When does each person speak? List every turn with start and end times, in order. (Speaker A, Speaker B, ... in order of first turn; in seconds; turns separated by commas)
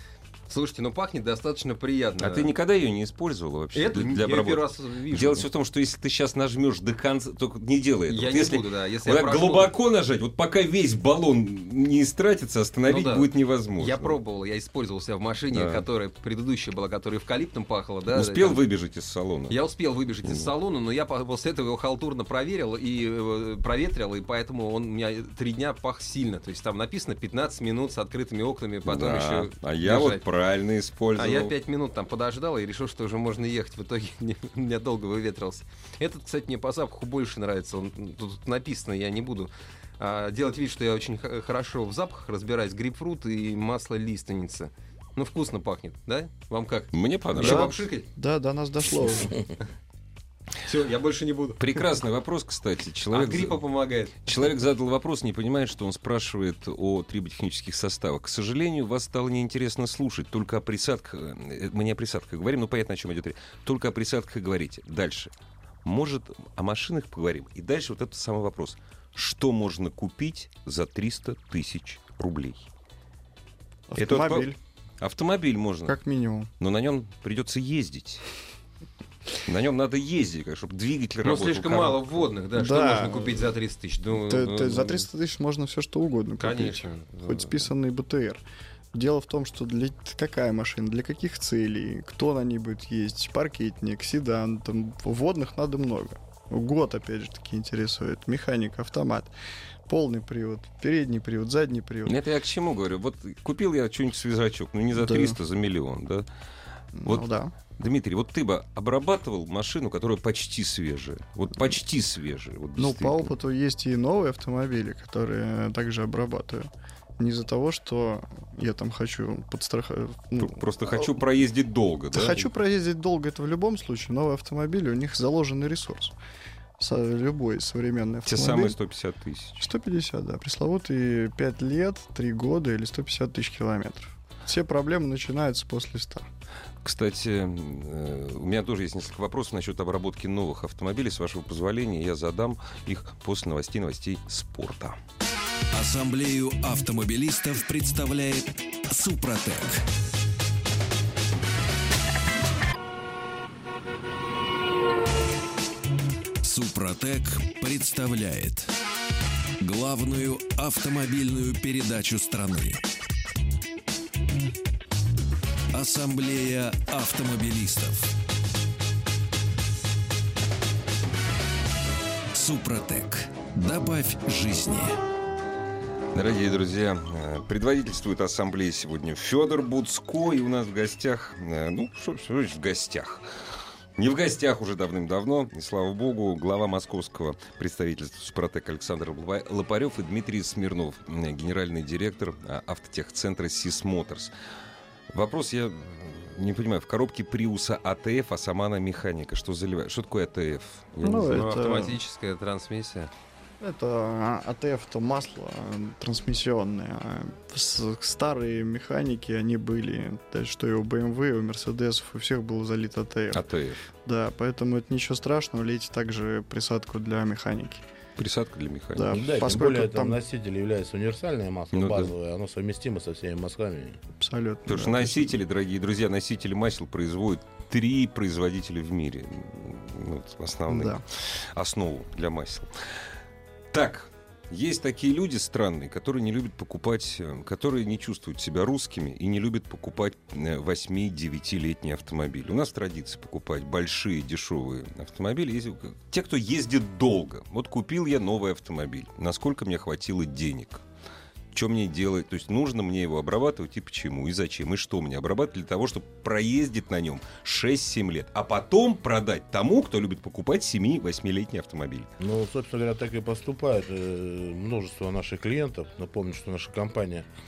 Speaker A: 0.5-2.5, Speaker B: 2.2-14.2, Speaker A: 3.7-5.4, Speaker A: 8.1-9.7, Speaker A: 12.9-13.3, Speaker A: 13.8-18.6, Speaker B: 15.5-15.8, Speaker B: 18.1-19.6, Speaker A: 19.5-30.2, Speaker B: 28.9-31.5, Speaker A: 31.1-48.0, Speaker B: 46.9-47.7, Speaker C: 47.4-49.4, Speaker A: 50.6-51.6, Speaker B: 51.6-53.6, Speaker A: 53.1-54.3, Speaker B: 54.2-65.3, Speaker B: 65.8-72.7, Speaker C: 73.9-74.6, Speaker B: 74.0-74.5, Speaker B: 75.0-76.0, Speaker C: 75.8-76.5, Speaker B: 76.6-78.3, Speaker B: 79.4-82.1, Speaker A: 81.2-85.0, Speaker C: 82.5-83.2, Speaker C: 84.1-99.3, Speaker A: 86.4-87.6, Speaker C: 99.9-102.2, Speaker B: 102.0-106.2, Speaker C: 104.9-105.4, Speaker C: 106.9-107.5, Speaker B: 107.0-113.3, Speaker C: 112.8-121.2, Speaker B: 120.4-122.5, Speaker C: 122.1-126.2, Speaker C: 126.8-128.8, Speaker B: 128.2-129.6, Speaker C: 129.6-136.2, Speaker B: 136.8-145.0, Speaker D: 145.7-149.8, Speaker D: 156.4-158.7, Speaker D: 159.6-162.8, Speaker D: 165.7-168.1, Speaker D: 172.3-175.0, Speaker B: 176.1-183.2, Speaker B: 184.0-194.3, Speaker B: 195.1-201.6, Speaker C: 201.0-202.0, Speaker A: 201.3-203.1, Speaker C: 203.6-213.4, Speaker B: 213.3-213.8, Speaker C: 214.0-217.8, Speaker B: 218.2-219.1, Speaker C: 218.9-220.2, Speaker E: 219.1-224.0, Speaker B: 221.7-222.1, Speaker C: 224.2-225.4, Speaker B: 224.7-232.7, Speaker C: 230.7-231.0, Speaker B: 233.7-250.8, Speaker B: 251.5-262.1, Speaker E: 262.2-267.2